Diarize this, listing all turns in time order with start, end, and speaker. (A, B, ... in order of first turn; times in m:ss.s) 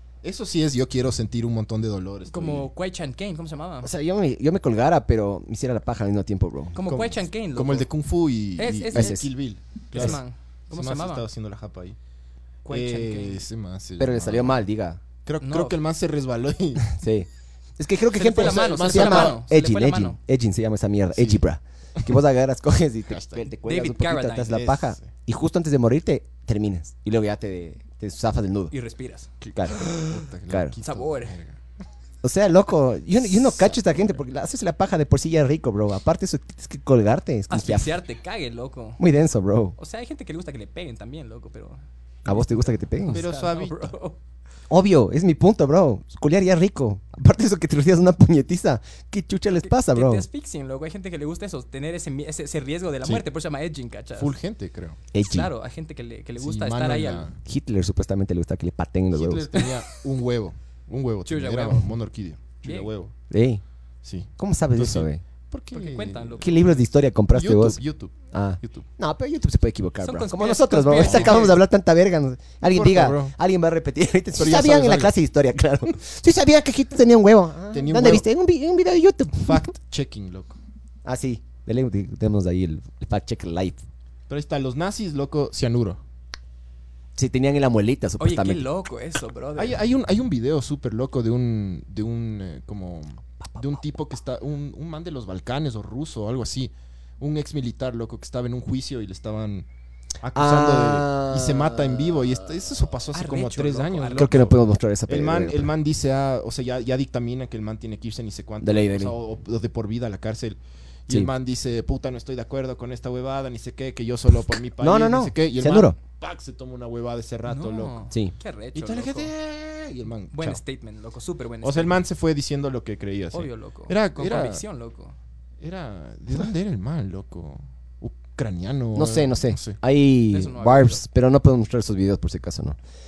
0:00.2-0:02.7 A
0:02.3-0:03.9 B
0:03.8-0:06.8 C
0:06.8-0:07.9 B
0:06.8-0:12.0 A
0:08.6-0:09.2 B
0:08.9-0:09.3 C
0:09.9-0:11.2 B
0:12.6-0:13.4 B
0:12.7-0:14.6 A
0:14.0-0:15.0 C
0:15.2-0:16.9 A
0:15.4-0:15.8 B
0:16.9-0:28.7 C
0:18.1-0:20.2 B
0:18.3-0:19.4 A
0:21.1-0:21.4 A
0:23.1-0:23.5 A
0:23.6-0:24.6 B
0:24.5-0:25.1 A
0:28.7-0:30.0 B
0:29.4-0:31.6 A
0:29.6-0:29.9 C
0:30.5-0:30.8 C
0:30.8-0:31.4 B
0:32.2-0:38.0 C
0:37.5-0:39.0 B
0:39.0-0:39.8 C
0:39.8-0:44.2 B
0:42.3-0:43.2 C
0:43.1-0:43.9 A
0:44.7-0:50.3 C
0:49.5-0:54.3 B
0:54.2-0:55.0 A
0:55.1-0:55.5 C
0:55.2-0:57.3 B
0:56.4-0:57.4 A
0:57.4-0:59.6 C
0:59.1-1:03.1 A
1:01.3-1:01.9 B
1:02.6-1:02.9 B
1:03.3-1:03.6 C
1:04.0-1:06.7 A
1:04.4-1:05.2 C
1:05.7-1:06.8 B
1:06.4-1:07.8 C
1:07.3-1:08.9 A
1:08.3-1:19.7 C
1:10.0-1:11.6 B
1:11.0-1:11.5 A
1:12.7-1:13.3 A
1:14.4-1:15.2 A
1:17.7-1:18.2 A
1:19.4-1:20.6 A
1:21.0-1:23.8 C
1:24.3-1:26.0 A
1:27.2-1:28.7 C
1:28.2-1:29.8 B
1:29.6-1:39.7 A
1:40.2-1:58.1 A
1:40.3-1:42.7 C
1:43.1-1:44.4 B
1:44.2-1:45.7 C
1:48.6-1:49.2 C
1:54.8-1:56.0 C
1:57.5-1:59.3 B
1:58.8-2:00.6 A
2:00.3-2:02.0 B
2:01.6-2:04.6 A
2:03.3-2:05.2 B
2:05.6-2:09.8 A
2:09.0-2:12.8 C
2:10.3-2:11.0 B